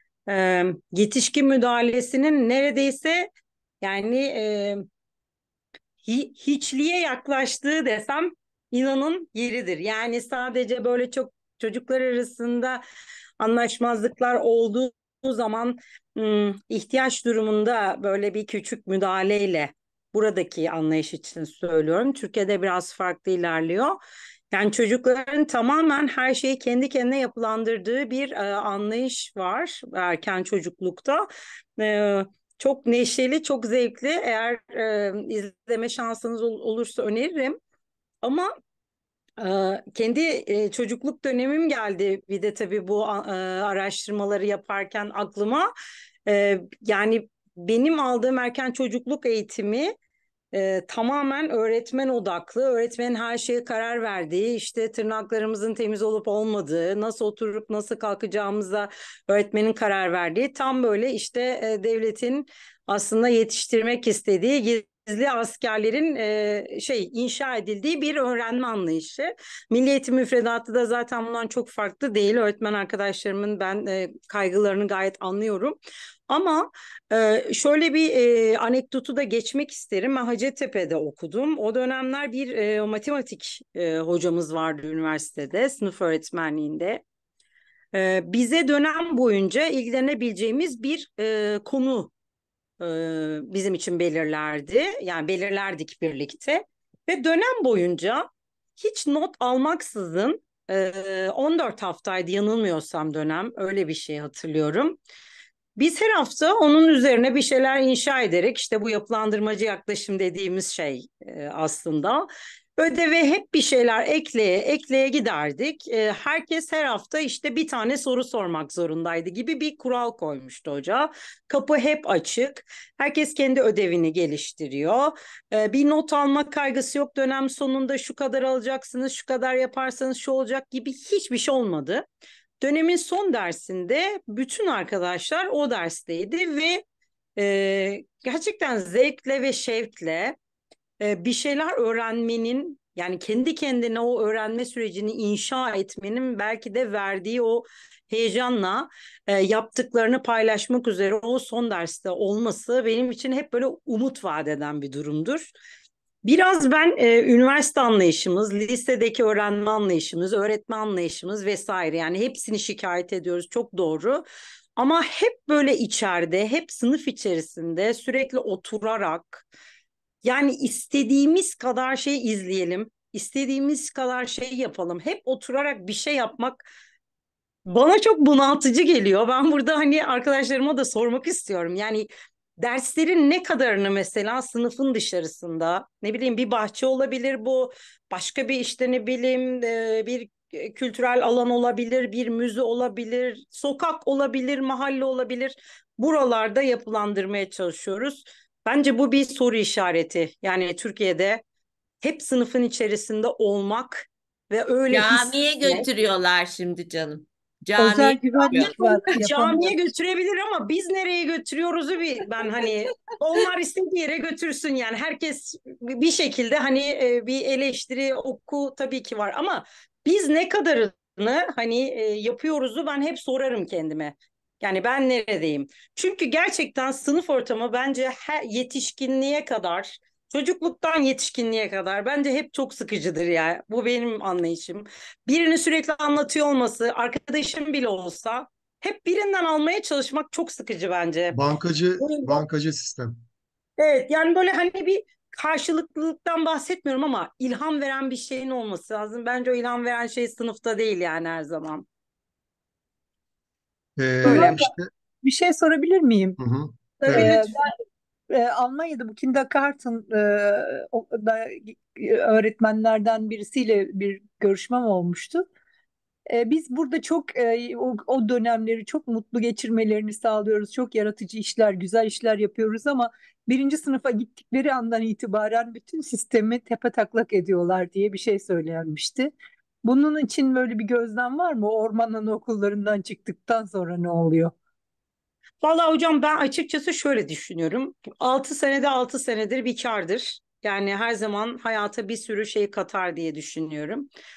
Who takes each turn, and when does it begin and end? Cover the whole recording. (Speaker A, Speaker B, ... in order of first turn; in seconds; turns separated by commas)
Speaker A: 0.3-3.3, Speaker A: 3.8-4.8, Speaker A: 6.1-12.8, Speaker A: 13.4-24.0, Speaker A: 24.5-37.6, Speaker A: 38.2-38.5, Speaker A: 39.4-45.7, Speaker A: 46.3-49.9, Speaker A: 50.5-75.8, Speaker A: 76.3-87.0, Speaker A: 87.9-92.1, Speaker A: 92.8-98.3, Speaker A: 98.8-105.0, Speaker A: 105.8-132.1, Speaker A: 132.6-136.8, Speaker A: 137.4-140.4, Speaker A: 141.0-155.5, Speaker A: 156.2-164.3, Speaker A: 164.8-169.4, Speaker A: 170.2-176.7, Speaker A: 177.7-182.1, Speaker A: 182.6-201.4, Speaker A: 202.0-205.9, Speaker B: 204.9-208.7, Speaker C: 207.8-209.8, Speaker A: 208.5-241.4, Speaker D: 241.3-243.2, Speaker A: 242.0-242.4, Speaker A: 243.8-251.8, Speaker D: 254.0-254.9, Speaker C: 254.2-256.4, Speaker A: 254.2-254.6, Speaker D: 256.4-257.3, Speaker C: 257.0-257.6, Speaker A: 257.0-257.6, Speaker C: 258.3-265.5, Speaker C: 266.3-279.3, Speaker C: 279.8-284.5, Speaker A: 285.6-294.1